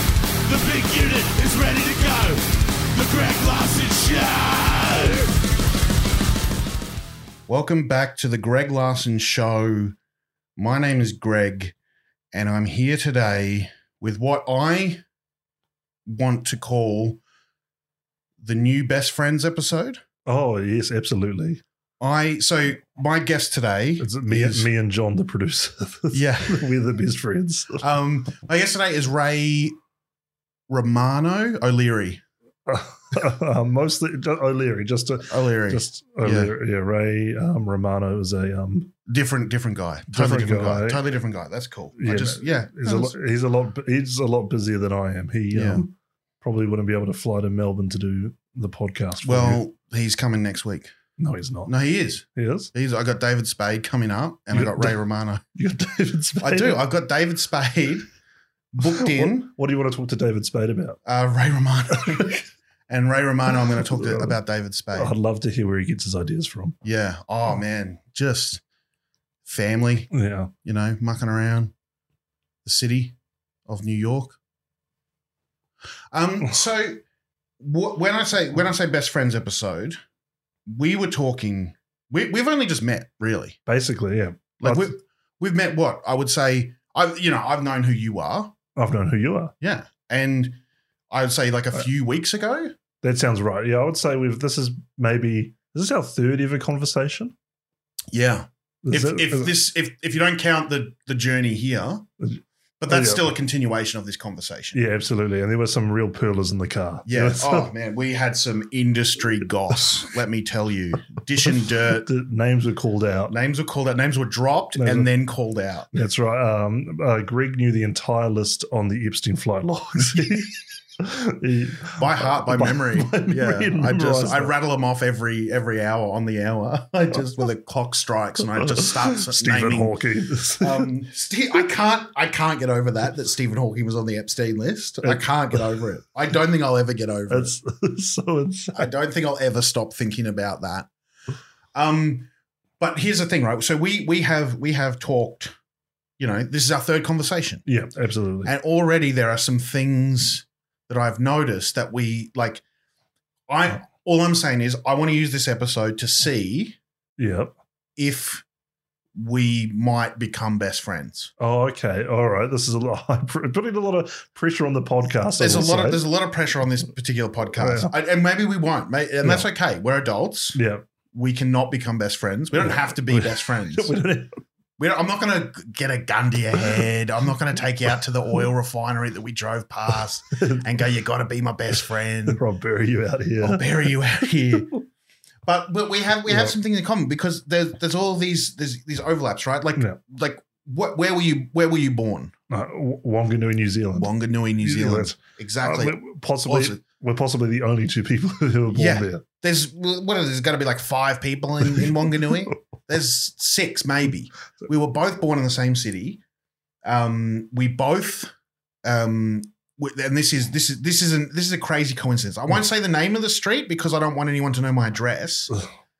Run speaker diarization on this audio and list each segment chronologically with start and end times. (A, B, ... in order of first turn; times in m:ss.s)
0:00.4-0:05.3 A
0:07.5-0:10.0 B
0:10.6-0:11.7 B
0:12.3-0:15.0 B
0:16.0-0:17.2 B
0:18.4-0:20.0 B
0:20.2-0:21.6 C
0:22.0-0:24.7 B
0:24.0-0:27.8 C
0:26.1-0:26.6 B
0:27.8-0:29.8 B
0:30.7-0:32.2 B
0:32.7-0:38.9 C
0:35.3-0:36.5 B
0:39.1-0:43.1 B
0:40.1-0:41.0 C
0:42.0-0:49.6 C
0:45.5-0:45.8 B
0:49.2-0:50.9 B
0:51.2-0:51.7 C
0:51.7-0:55.4 B
0:52.3-0:52.7 C
0:54.5-0:55.0 C
0:55.5-0:56.8 C
0:56.4-0:58.1 B
0:58.7-0:59.5 B
0:58.8-1:01.0 C
1:01.0-1:05.1 B
1:01.9-1:02.3 C
1:03.7-1:04.4 C
1:04.9-1:06.8 C
1:06.8-1:08.6 B
1:09.4-1:10.1 B
1:10.1-1:10.5 C
1:10.6-1:11.7 B
1:12.6-1:13.1 B
1:13.7-1:14.4 B
1:16.1-1:17.0 B
1:17.6-1:20.0 B
1:20.7-1:23.6 B
1:23.7-1:24.9 C
1:24.6-1:28.6 B
1:28.8-1:29.5 C
1:29.6-1:30.6 B
1:31.1-1:32.7 B
1:33.0-1:37.3 C
1:38.1-1:42.0 B
1:38.8-1:39.5 C
1:42.2-1:43.3 C
1:42.8-1:44.8 B
1:44.7-1:47.7 C
1:47.0-1:52.1 B
1:51.5-1:53.3 C
1:53.3-1:55.9 B
1:54.7-1:55.1 C
1:55.9-2:04.5 C
2:02.0-2:10.0 B
2:08.6-2:10.9 C
2:10.6-2:17.5 B
2:15.0-2:15.6 C
2:17.3-2:18.9 C
2:18.7-2:20.9 B
2:21.7-2:22.3 B
2:22.8-2:25.5 B
2:26.2-2:27.6 B
2:27.6-2:28.5 C
2:28.4-2:32.6 B
2:33.5-2:36.8 B
2:37.2-2:37.5 C
2:38.0-2:38.4 B
2:39.1-2:41.3 B
2:41.4-2:46.0 C
2:45.4-2:50.6 B
2:47.6-2:47.9 C
2:50.5-2:50.8 C
2:51.1-2:53.9 B
2:52.6-2:54.4 C
2:54.8-3:02.4 B
3:00.3-3:00.6 C
3:02.3-3:03.9 C
3:03.4-3:04.7 B
3:05.4-3:12.3 B
3:06.3-3:06.5 C
3:12.5-3:19.2 C
3:14.0-3:16.8 B
3:18.7-3:26.2 B
3:26.8-3:28.3 B
3:28.8-3:35.5 B